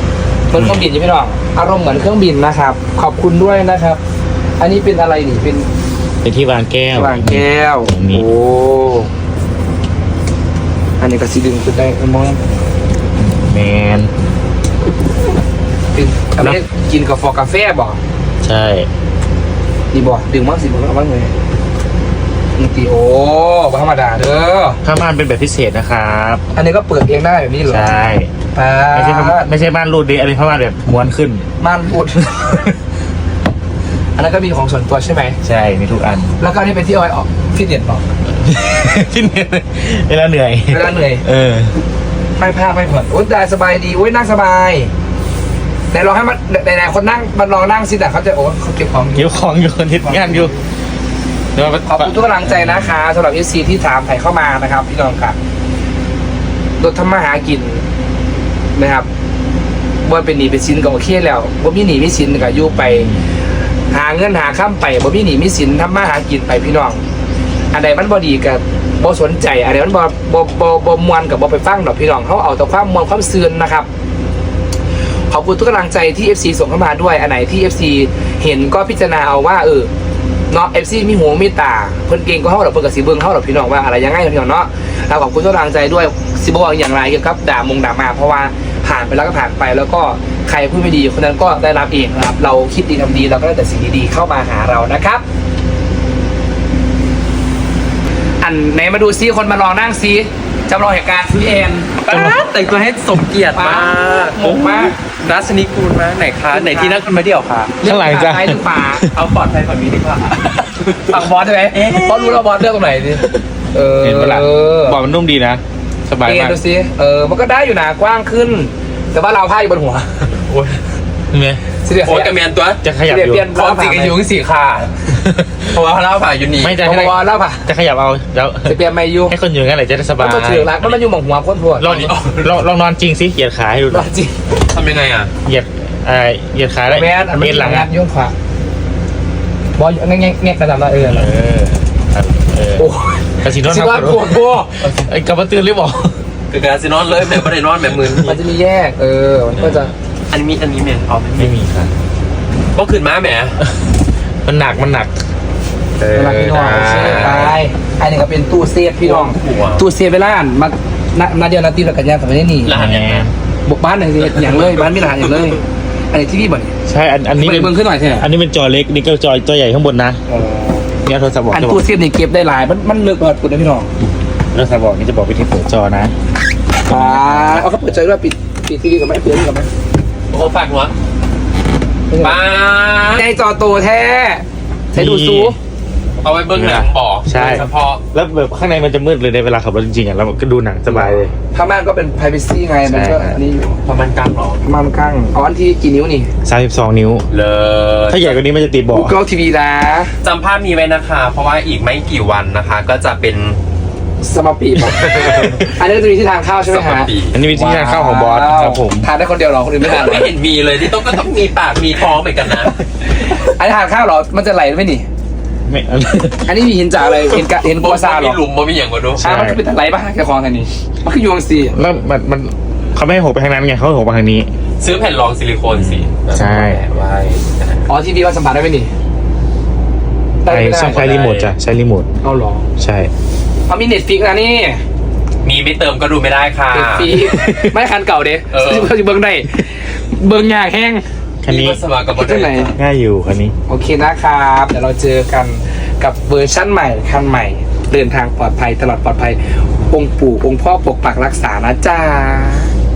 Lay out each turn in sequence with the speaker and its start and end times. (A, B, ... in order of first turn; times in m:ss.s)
0:00.5-0:04.0 A
0:00.6-0:00.8 B
0:04.6-0:05.7 A
0:06.2-0:08.2 B
0:06.9-0:09.1 A
0:11.0-0:12.4 A
0:13.2-0:14.1 B
0:15.9-0:18.0 A
0:18.4-0:18.9 B
0:19.9-0:21.3 A
0:22.6-0:24.8 A
0:24.8-0:26.4 B
0:26.5-0:27.9 A
0:27.7-0:28.3 B
0:28.5-0:29.5 A
0:28.9-0:31.4 B
0:31.6-0:32.8 A
0:34.2-0:35.4 A
0:35.4-0:36.3 B
0:36.4-0:38.0 A
0:38.4-0:41.7 B
0:40.7-0:41.2 A
0:42.4-0:44.9 A
0:45.9-0:49.4 A
0:49.2-0:50.5 B
0:50.0-0:50.5 A
0:51.5-0:52.9 B
0:51.8-0:55.4 A
0:56.8-0:57.8 A
0:58.8-0:59.0 A
1:00.0-1:03.1 A
1:02.4-1:03.2 B
1:03.9-1:07.0 A
1:07.7-1:13.9 A
1:15.3-1:19.9 A
1:20.5-1:35.2 A
1:38.4-1:42.0 A
1:42.0-1:44.4 C
1:42.1-1:42.5 B
1:43.5-1:45.0 A
1:44.4-1:44.9 B
1:45.1-1:47.8 C
1:46.5-1:47.0 A
1:47.8-1:49.1 A
1:47.8-1:49.1 B
1:49.1-1:52.4 C
1:50.7-1:55.0 A
1:54.0-1:56.6 B
1:56.2-2:00.3 A
2:00.5-2:00.8 C
2:01.3-2:01.6 B
2:01.8-2:02.4 A
2:02.0-2:02.8 C
2:02.8-2:03.5 B
2:03.0-2:04.2 A
2:03.5-2:06.9 C
2:06.6-2:10.7 B
2:06.8-2:07.7 A
2:08.6-2:09.4 A
2:10.2-2:12.1 A
2:11.8-2:14.1 B
2:11.8-2:12.5 C
2:13.9-2:14.3 A
2:14.7-2:15.3 C
2:15.4-2:17.9 B
2:16.9-2:18.3 A
2:19.8-2:21.3 A
2:21.0-2:22.9 B
2:22.8-2:24.9 A
2:23.4-2:26.2 B
2:26.5-2:28.3 C
2:28.2-2:29.9 A
2:30.3-2:31.5 C
2:31.4-2:31.9 B
2:32.7-2:33.6 C
2:34.4-2:35.1 B
2:36.0-2:37.6 C
2:36.1-2:42.8 A
2:36.2-2:37.5 B
2:39.0-2:39.8 C
2:42.6-2:43.3 C
2:42.7-2:43.3 B
2:43.6-2:46.7 A
2:46.8-2:50.2 B
2:47.4-2:48.3 A
2:50.3-2:50.9 A
2:51.0-2:51.8 B
2:51.5-2:53.9 A
2:54.5-2:56.1 B
2:56.9-2:59.7 A
2:56.9-2:57.7 B
3:00.3-3:00.9 C
3:02.1-3:02.4 A
3:02.2-3:03.2 C
3:03.1-3:05.6 A
3:04.9-3:05.6 B
3:06.2-3:08.0 C
3:06.5-3:11.3 B
3:10.9-3:13.8 A
3:12.8-3:13.4 B
3:13.8-3:14.6 C
3:14.6-3:16.3 A
3:16.4-3:17.2 B
3:17.3-3:18.4 C
3:18.1-3:19.2 B
3:18.9-3:20.1 A
3:20.2-3:23.6 C
3:24.2-3:30.3 A
3:24.9-3:25.6 C
3:26.6-3:27.4 C
3:27.3-3:29.1 B
3:29.8-3:32.8 C
3:33.0-3:35.0 A
3:35.7-3:36.5 B
3:36.4-3:38.4 A
3:37.3-3:39.2 C
3:39.2-3:39.6 B
3:39.2-3:41.8 A
3:41.7-3:44.5 B
3:44.8-3:47.9 C
3:45.7-3:46.8 B
3:47.9-3:48.9 A
3:50.4-3:51.0 A
3:50.5-3:52.1 B
3:50.8-3:51.5 C
3:52.2-3:52.7 A
3:52.8-3:53.1 B
3:53.7-3:54.8 A
3:55.4-3:57.2 C
3:56.7-4:01.0 A
3:57.1-3:57.7 B
3:58.5-3:58.9 C
4:01.4-4:01.8 B
4:01.4-4:02.8 C
4:02.1-4:02.7 A
4:02.7-4:03.5 B
4:03.7-4:12.7 A